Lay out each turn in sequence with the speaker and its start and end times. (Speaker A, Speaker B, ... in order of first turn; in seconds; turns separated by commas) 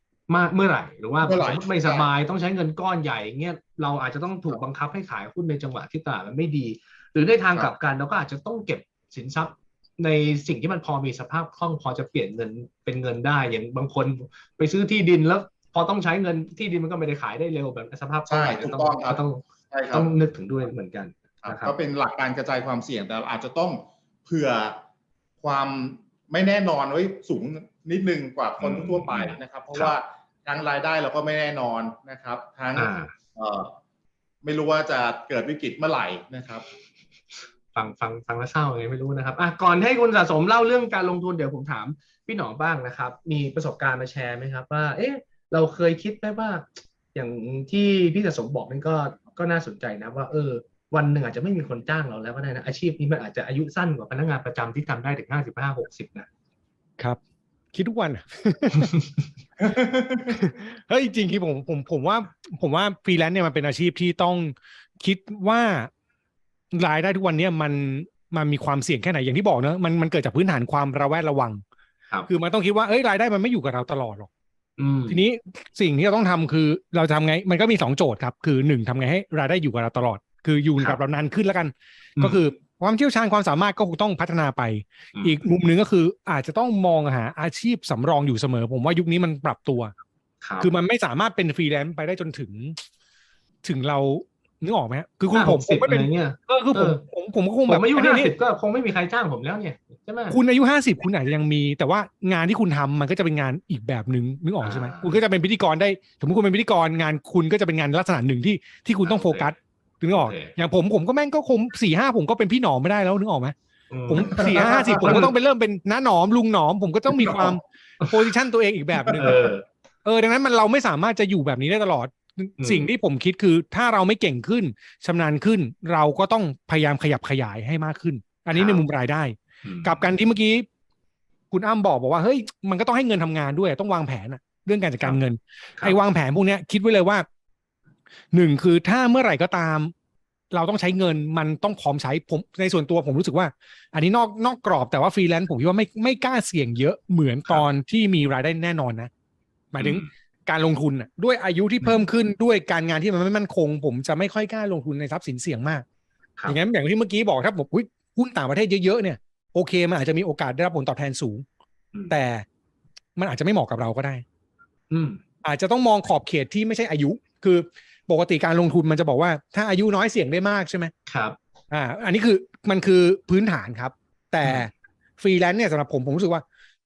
Speaker A: 0.3-21.7, Speaker B: 1.2-2.1, Speaker B: 18.3-20.1, Speaker B: 21.4-24.8, Speaker B: 25.4-33.8, Speaker A: 28.6-29.9, Speaker A: 32.8-33.1, Speaker B: 34.4-36.6, Speaker A: 37.7-56.3, Speaker C: 57.7-58.9, Speaker B: 59.7-60.3, Speaker C: 60.3-65.9, Speaker C: 66.7-71.6, Speaker C: 72.3-74.3, Speaker A: 74.8-75.2, Speaker C: 75.1-89.9, Speaker A: 85.1-85.4, Speaker A: 90.4-90.8, Speaker C: 90.6-92.8, Speaker C: 93.6-98.3, Speaker A: 95.3-97.0, Speaker A: 97.7-100.4, Speaker C: 100.3-113.5, Speaker A: 104.6-105.2, Speaker A: 109.0-109.5, Speaker A: 110.1-110.5, Speaker A: 113.9-115.3, Speaker C: 114.1-119.5, Speaker A: 117.1-118.3, Speaker A: 119.0-119.6, Speaker C: 120.0-130.7, Speaker A: 122.6-122.9, Speaker A: 128.5-128.8, Speaker A: 129.6-130.1, Speaker C: 131.5-137.2, Speaker C: 138.3-139.9, Speaker C: 140.5-149.1, Speaker C: 149.7-155.8, Speaker A: 149.8-150.1, Speaker C: 156.5-161.4, Speaker C: 162.1-162.4, Speaker C: 163.2-164.2, Speaker A: 164.9-165.2, Speaker C: 165.4-170.9, Speaker A: 171.1-171.4, Speaker C: 171.7-176.4, Speaker A: 174.4-174.7